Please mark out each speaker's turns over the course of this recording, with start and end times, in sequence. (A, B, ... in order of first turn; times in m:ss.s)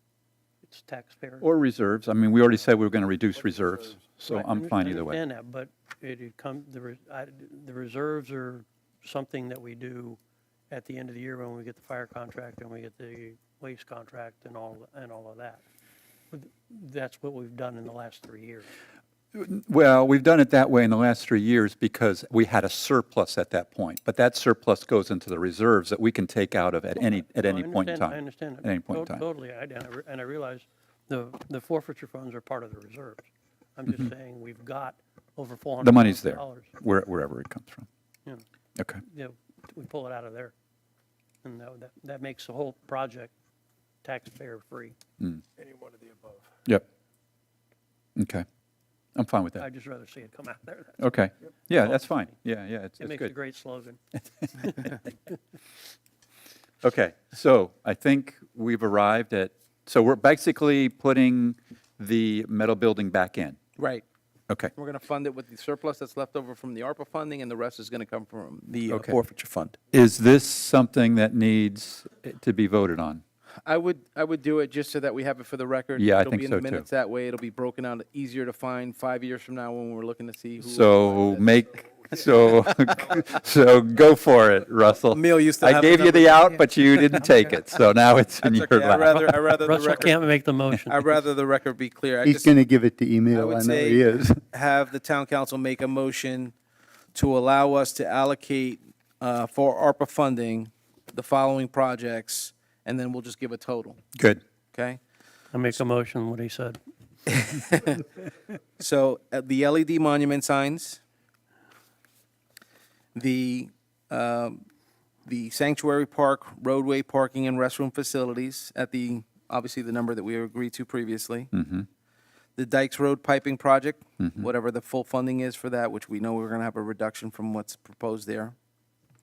0:00.6-0:01.5 A
0:01.4-0:05.2 B
0:04.3-0:15.6 A
0:16.3-0:18.7 A
0:19.3-0:29.2 B
0:27.3-0:36.7 A
0:35.8-0:37.9 B
0:39.0-0:40.5 A
0:41.4-0:43.3 A
0:44.0-0:45.0 A
0:48.2-0:48.4 B
0:49.2-0:49.6 B
0:49.6-0:51.0 A
0:51.0-0:53.3 B
0:51.8-0:52.2 A
0:53.0-0:54.0 A
0:54.6-0:55.0 A
0:56.8-1:03.6 B
1:03.8-1:04.0 C
1:04.7-1:09.8 C
1:08.9-1:09.2 B
1:09.9-1:13.2 B
1:13.6-1:21.4 C
1:16.0-1:16.9 B
1:20.6-1:29.2 B
1:25.1-1:26.4 C
1:28.4-1:30.2 C
1:29.1-1:31.2 A
1:30.9-1:32.5 C
1:32.2-1:34.3 D
1:33.3-1:36.5 C
1:37.2-1:44.0 C
1:44.2-1:44.4 B
1:44.7-1:45.0 C
1:45.5-1:46.8 A
1:47.3-1:48.0 C
1:48.8-1:51.0 C
1:53.2-1:54.6 C
1:55.2-2:01.5 C
2:01.5-2:01.9 B
2:02.6-2:08.6 C
2:04.2-2:04.5 B